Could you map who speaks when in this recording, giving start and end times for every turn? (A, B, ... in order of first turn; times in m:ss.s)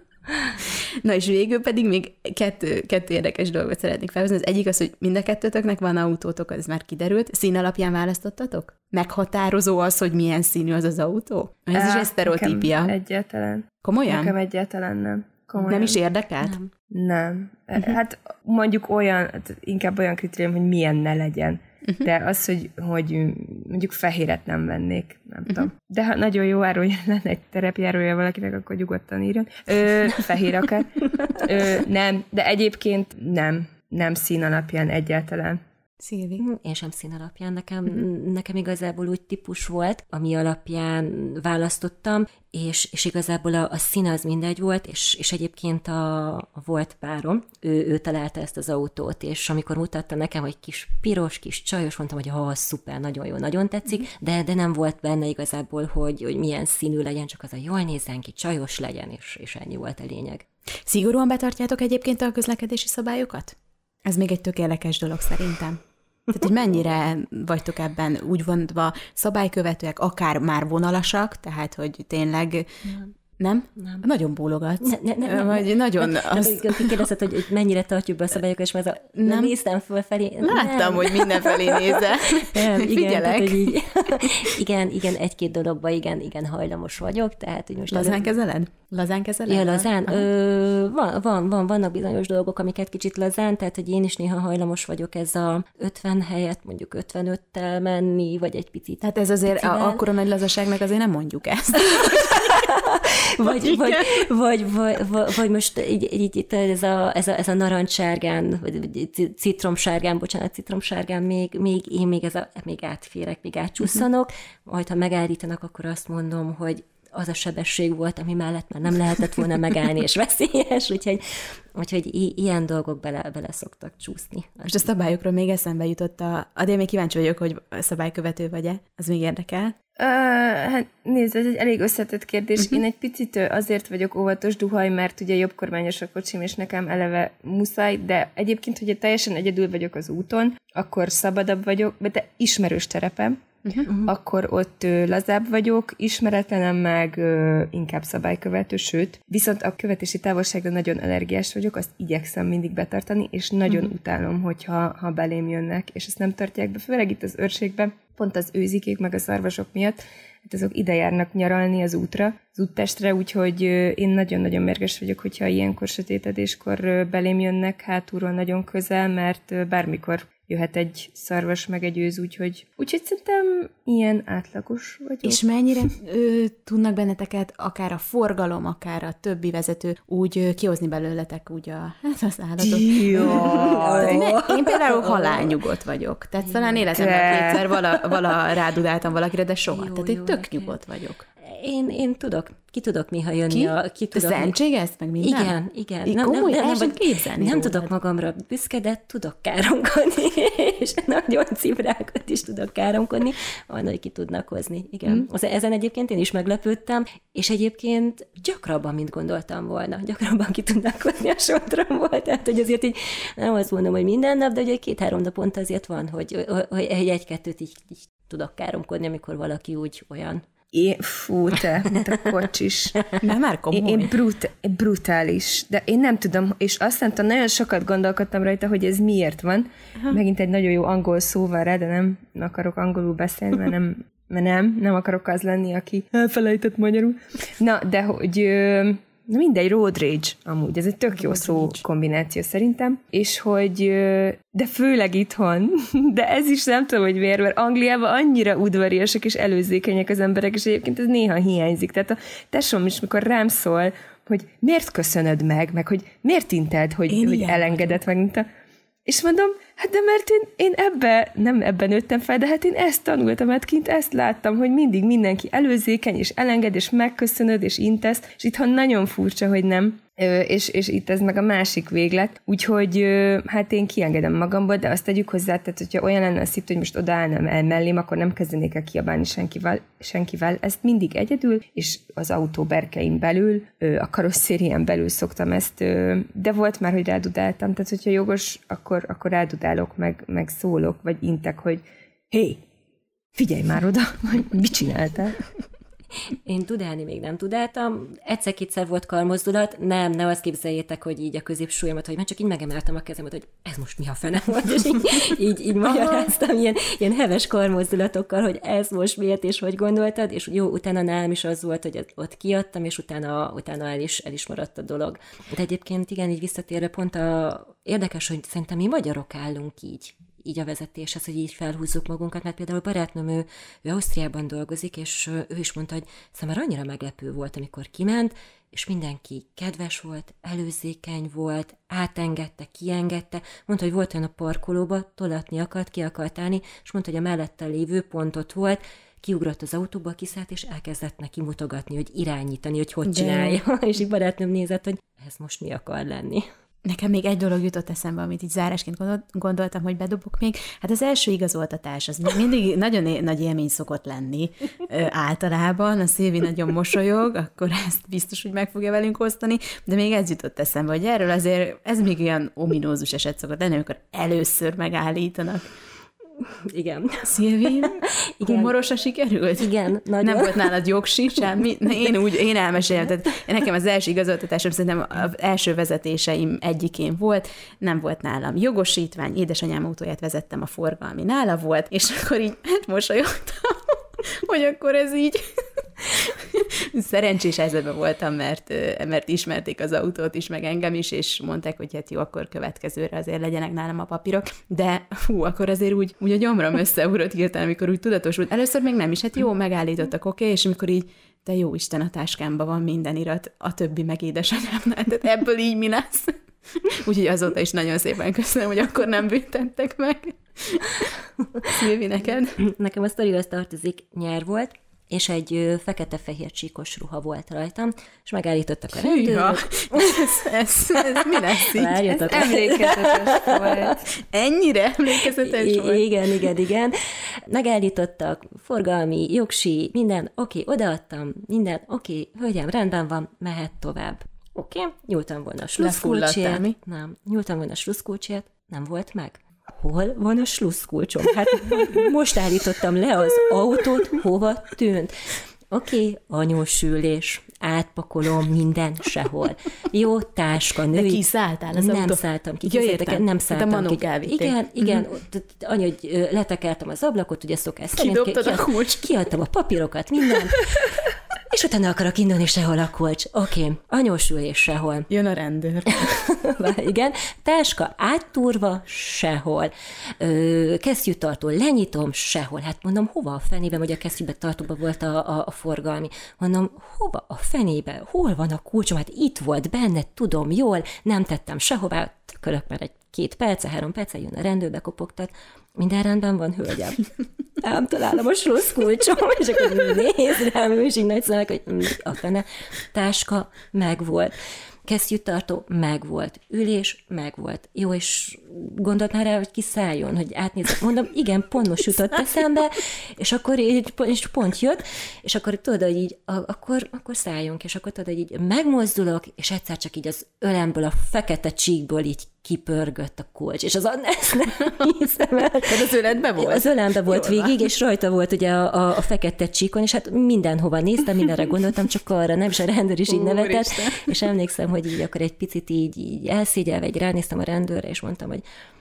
0:00.6-0:13.0 A
0:11.7-0:16.0 B
0:13.8-0:14.4 A
0:15.6-0:16.6 A
0:16.4-0:16.7 C
0:16.9-0:35.6 B
0:36.0-0:36.4 A
0:36.4-1:00.4 C
1:00.9-1:17.0 A
1:13.8-1:14.1 C
1:14.8-1:28.3 C
1:19.2-1:19.5 A
1:20.4-1:24.5 A
1:27.9-1:30.3 A
1:29.5-1:40.0 C
1:39.0-1:42.6 A
1:41.9-2:01.2 C
1:43.4-1:44.2 A
2:01.8-2:04.9 C
2:04.7-2:09.8 A
2:10.0-2:55.4 B
2:55.2-3:11.2 A
3:02.6-3:04.2 B
3:03.1-3:05.6 C
3:06.4-3:07.2 C
3:06.9-3:07.9 B
3:09.7-3:10.8 C
3:11.4-3:14.6 C
3:13.5-3:17.9 A
3:15.2-3:40.4 C
3:40.7-3:43.1 B
3:43.2-3:44.2 A
3:43.7-4:18.5 B
4:01.1-4:01.8 A
4:17.1-4:17.8 A
4:19.1-4:52.6 B
4:53.4-4:55.4 B
4:56.5-5:46.5 C
5:43.1-5:43.6 A
5:46.8-6:05.7 A
6:06.6-6:08.7 C
6:07.2-6:25.5 A
6:09.6-6:10.8 C
6:26.0-6:51.1 A
6:51.4-6:51.8 C
6:51.7-6:52.6 A
6:52.6-7:04.0 C
6:59.0-7:02.6 A
7:02.3-7:04.0 B
7:04.2-7:06.1 A
7:05.3-7:25.2 C
7:15.8-7:16.8 A
7:25.7-7:40.9 C
7:30.9-7:35.0 A
7:38.0-7:39.0 A
7:41.5-7:45.1 C
7:45.1-7:46.2 A
7:45.9-8:07.1 C
8:07.6-8:14.4 C
8:14.9-8:48.4 C
8:35.7-8:37.6 A
8:43.1-8:44.1 A